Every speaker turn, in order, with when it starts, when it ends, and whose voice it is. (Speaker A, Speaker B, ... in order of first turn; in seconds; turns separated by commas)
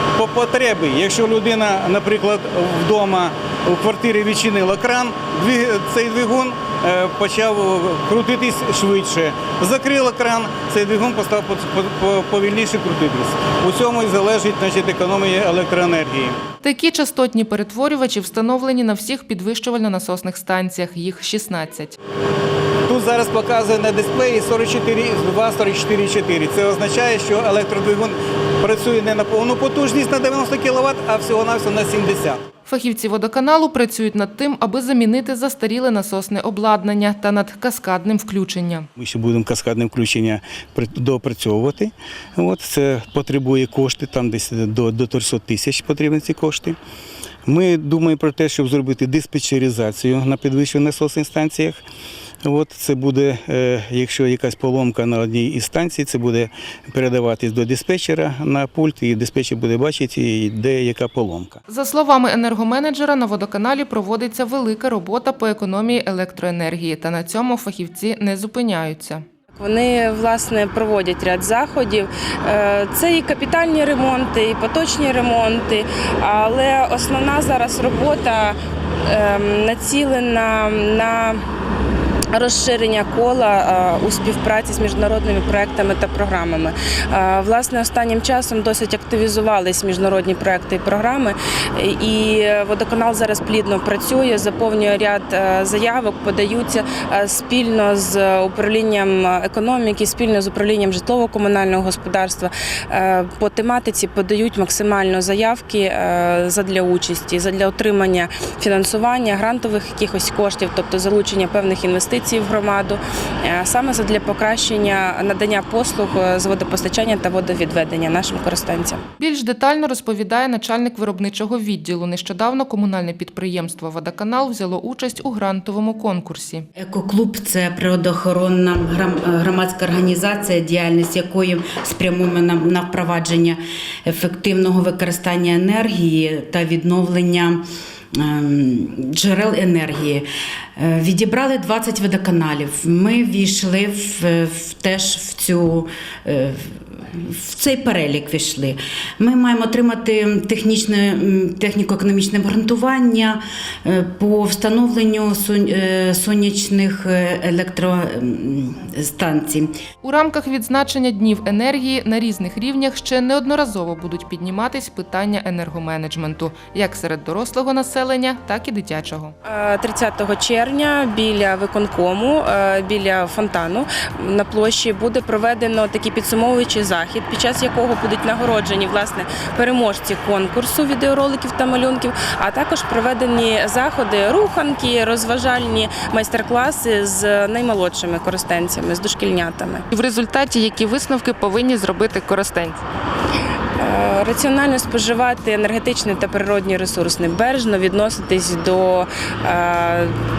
Speaker A: 0.1-16.4, Speaker B: 16.6-21.9, Speaker A: 22.9-32.4, Speaker B: 32.7-38.9, Speaker A: 39.0-46.8, Speaker A: 47.5-51.8, Speaker A: 52.4-61.6, Speaker B: 61.7-69.2, Speaker C: 69.6-81.4, Speaker C: 82.3-119.0, Speaker B: 119.2-126.7, Speaker D: 126.8-137.6, Speaker D: 138.1-140.2, Speaker D: 140.8-159.7, Speaker B: 160.0-169.3, Speaker C: 169.4-189.8, Speaker B: 189.9-192.8, Speaker C: 193.8-200.1